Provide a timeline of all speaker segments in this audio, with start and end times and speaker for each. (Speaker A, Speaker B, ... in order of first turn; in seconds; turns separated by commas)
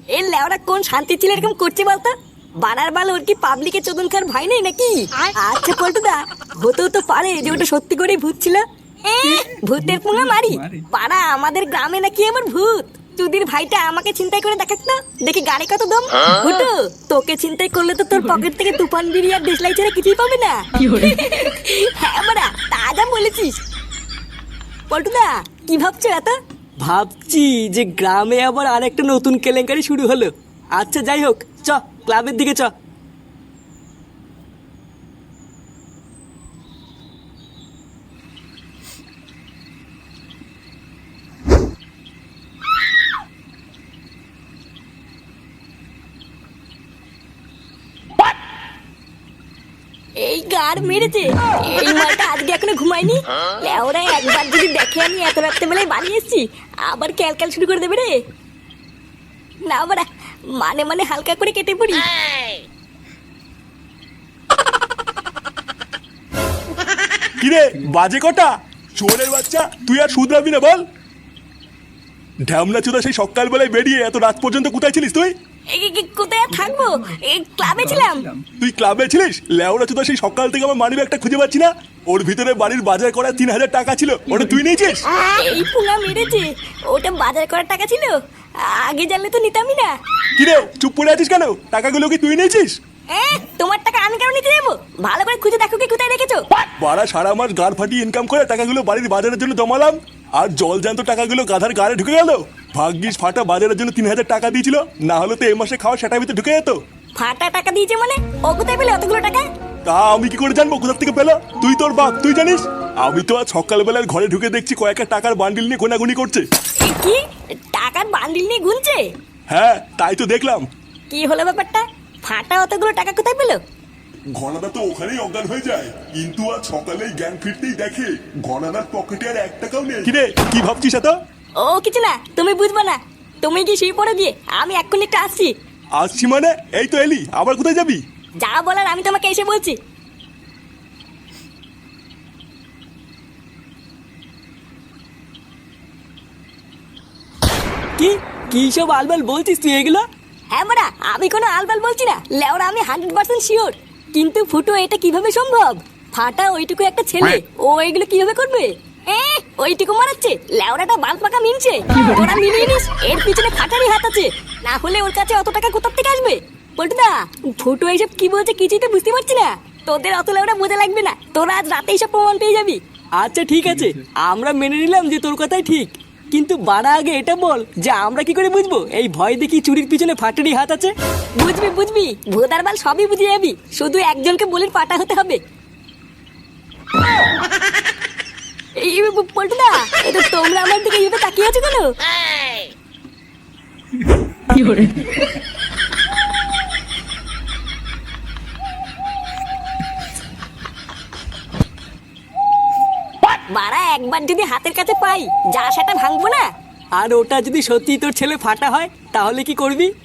Speaker A: 0.1-23.6, Speaker A: 24.9-26.4, Speaker B: 26.8-32.7, Speaker A: 50.2-58.2, Speaker A: 59.6-62.0, Speaker C: 67.4-70.8, Speaker C: 72.5-75.3, Speaker A: 75.7-78.3, Speaker C: 78.5-85.0, Speaker A: 85.3-89.9, Speaker C: 90.3-92.8, Speaker A: 93.1-96.4, Speaker C: 96.8-106.8, Speaker A: 107.2-109.4, Speaker C: 109.8-116.5, Speaker A: 116.8-117.2, Speaker A: 117.7-119.1, Speaker C: 119.5-120.7, Speaker A: 121.1-123.6, Speaker C: 124.3-131.1, Speaker A: 131.6-135.5, Speaker C: 136.0-138.0, Speaker A: 138.4-139.8, Speaker B: 148.0-150.1, Speaker A: 150.5-172.8, Speaker B: 173.2-180.9, Speaker A: 181.4-185.4, Speaker A: 188.8-191.9, Speaker A: 203.5-206.5, Speaker B: 206.9-209.9